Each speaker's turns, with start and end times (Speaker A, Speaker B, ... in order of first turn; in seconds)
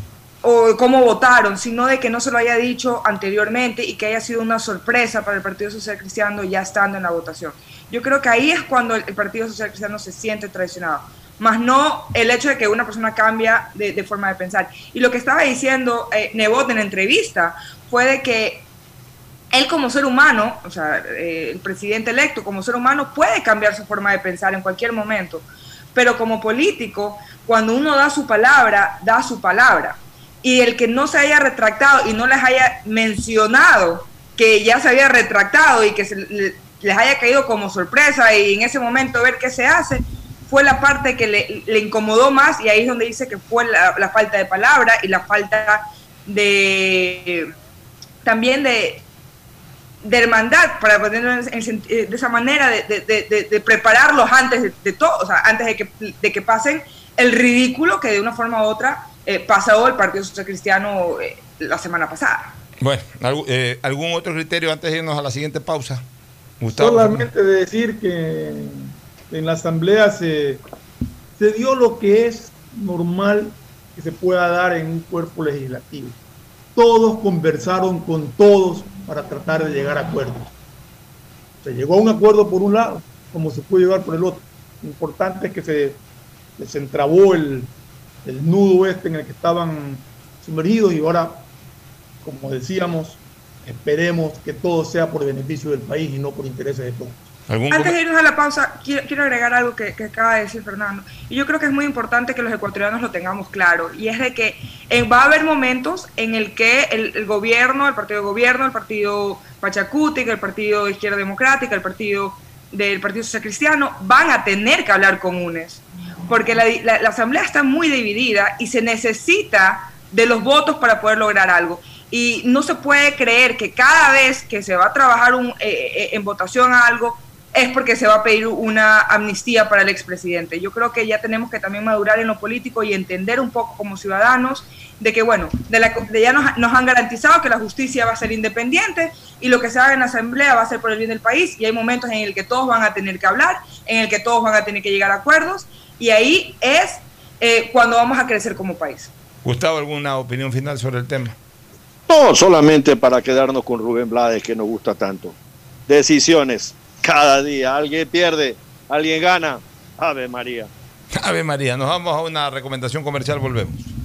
Speaker A: 0.4-18.6, 19.5-25.4, 25.9-47.5, 48.2-49.0, 50.0-62.6, 97.7-149.1
Speaker B: 62.8-66.0, 66.6-67.3, 97.5-98.0, 149.4-151.4, 161.1-163.9
Speaker C: 66.7-70.6, 71.4-76.2, 76.8-80.5, 81.6-86.0, 86.6-87.7, 88.2-91.5, 92.2-97.2
Speaker D: 152.1-155.3, 155.9-160.7